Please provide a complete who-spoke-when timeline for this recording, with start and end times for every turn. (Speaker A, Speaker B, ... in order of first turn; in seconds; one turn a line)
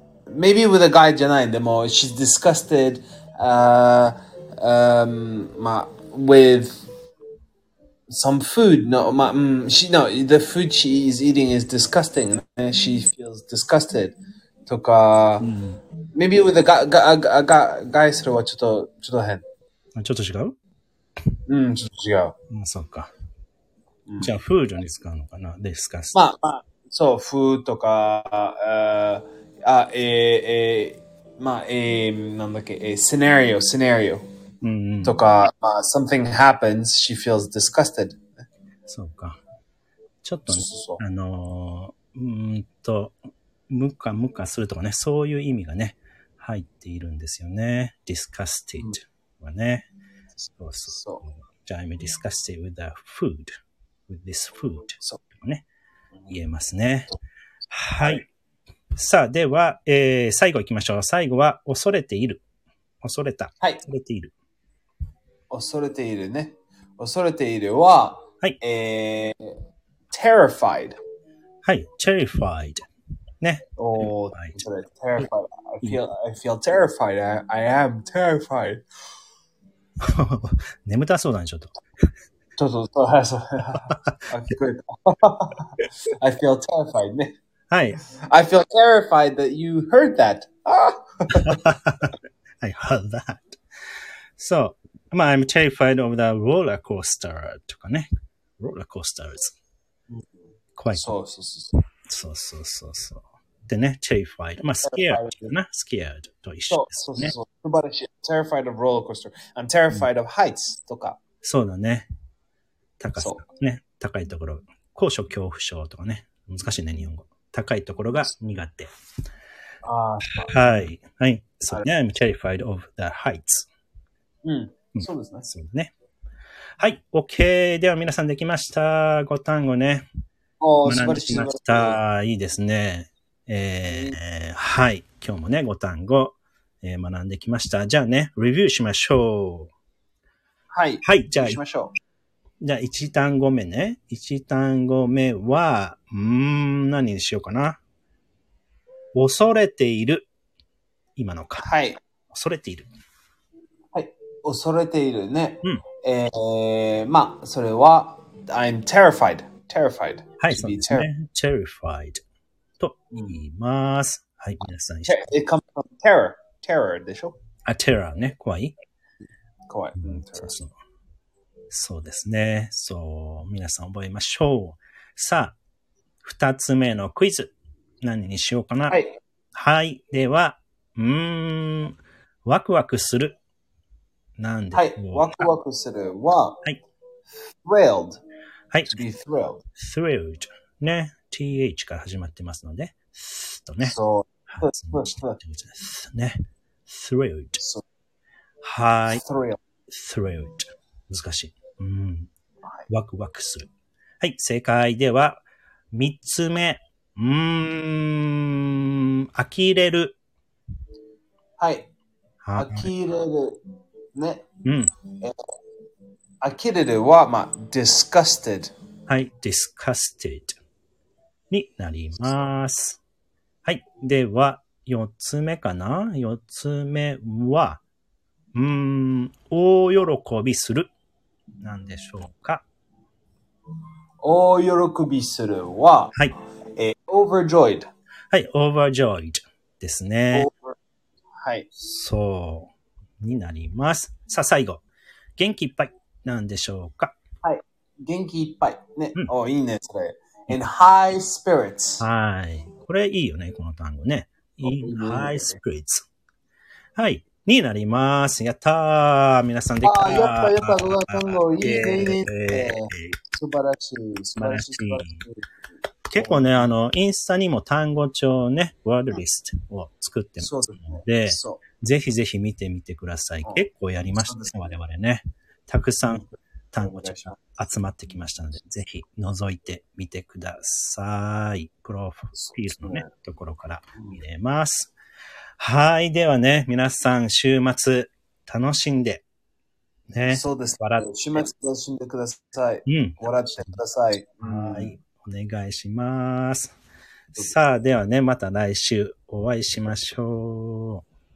Speaker A: 0.3-6.8
Speaker A: 8.1-15.5
Speaker B: 15.4-15.8
Speaker A: 16.1-19.4
Speaker B: 19.9-20.6
Speaker A: 21.5-22.3
Speaker B: 22.5-23.1
Speaker A: 24.1-24.3
Speaker B: 24.2-26.2
Speaker A: 26.1-34.2
Speaker B: 34.6-35.2
Speaker A: 35.0-38.2
Speaker B: 38.9-39.4
Speaker B: 40.2-43.2
Speaker A: 40.5-41.0
Speaker B: 43.7-49.9
Speaker B: 50.6-53.5
Speaker A: 50.8-51.2
Speaker B: 54.1-55.6
Speaker B: 56.3-57.2
Speaker B: 57.7-58.2
Speaker A: 58.0-58.2
Speaker B: 59.0-62.4
Speaker B: 63.0-64.3
Speaker A: 65.5-69.5
Speaker A: 70.1-71.0
Speaker B: 71.6-72.9
Speaker B: 73.4-74.6
Speaker A: 73.8-78.8
Speaker B: 80.0-81.8
Speaker A: 82.6-87.3
Speaker B: 83.9-84.2
Speaker B: 87.7-88.0
Speaker A: 88.3-91.7
Speaker B: 91.5-93.6
Speaker B: 94.4-98.1
Speaker B: 98.6-99.5
Speaker A: 100.1-101.7
Speaker B: 100.8-101.1
Speaker B: 102.1-107.3
Speaker A: 104.8-105.5
Speaker A: 106.7-111.2
Speaker B: 111.4-112.1
Speaker B: 113.0-118.9
Speaker A: 113.2-113.4
Speaker A: 119.8-120.7
Speaker B: 120.4-123.7
Speaker A: 124.4-125.5
Speaker B: 125.0-125.9
Speaker B: 126.8-130.1
Speaker A: 130.6-132.0
Speaker B: 130.8-139.7
Speaker A: 133.8-134.2
Speaker A: 140.7-141.9
Speaker B: 141.0-141.6
Speaker B: 142.6-147.8
Speaker B: 149.2-150.3
Speaker B: 151.2-151.7
Speaker A: 151.6-152.0
Speaker B: 152.3-152.9
Speaker A: 153.9-161.1
Speaker B: 160.4-162.2
Speaker B: 162.8-165.2
Speaker A: 163.1-163.4
Speaker A: 165.1-167.4
Speaker B: 167.7-168.7
Speaker A: 169.7-170.6
Speaker B: 170.0-170.7
Speaker B: 171.7-175.6
Speaker B: 176.2-179.0
Speaker A: 178.9-179.2
Speaker B: 179.5-183.4
Speaker B: 184.4-185.5
Speaker A: 184.7-186.6
Speaker A: 187.5-188.2
Speaker B: 188.7-189.0
Speaker A: 188.9-189.6
Speaker B: 189.8-194.0
Speaker A: 193.8-195.4
Speaker B: 194.5-196.4
Speaker B: 196.9-197.6
Speaker B: 198.6-199.2
Speaker A: 199.1-199.6
Speaker B: 199.9-202.3
Speaker B: 202.9-203.7
Speaker B: 204.2-210.2
Speaker A: 211.6-211.9
Speaker B: 212.4-212.9
Speaker A: 212.6-213.6
Speaker A: 214.2-214.5
Speaker B: 214.7-214.9
Speaker A: 216.4-218.7
Speaker B: 219.1-220.6
Speaker B: 221.5-223.0
Speaker B: 223.7-227.8
Speaker B: 228.5-230.9
Speaker B: 231.6-232.7
Speaker A: 234.2-236.1
Speaker A: 236.8-237.9
Speaker B: 238.3-240.5
Speaker A: 240.3-240.8
Speaker A: 241.4-241.7
Speaker B: 241.8-244.8
Speaker B: 245.4-247.2
Speaker A: 247.4-252.1
Speaker B: 252.0-256.1
Speaker A: 254.6-255.6
Speaker B: 257.0-263.2
Speaker A: 259.8-265.5
Speaker B: 264.4-265.2
Speaker B: 266.1-284.9
Speaker A: 266.1-266.7
Speaker A: 270.4-271.6
Speaker A: 274.2-274.7
Speaker A: 276.1-277.4
Speaker A: 282.3-283.1
Speaker B: 285.6-289.2
Speaker B: 290.1-291.5
Speaker A: 290.3-295.0
Speaker B: 292.9-293.8
Speaker B: 294.4-296.7
Speaker B: 297.3-301.0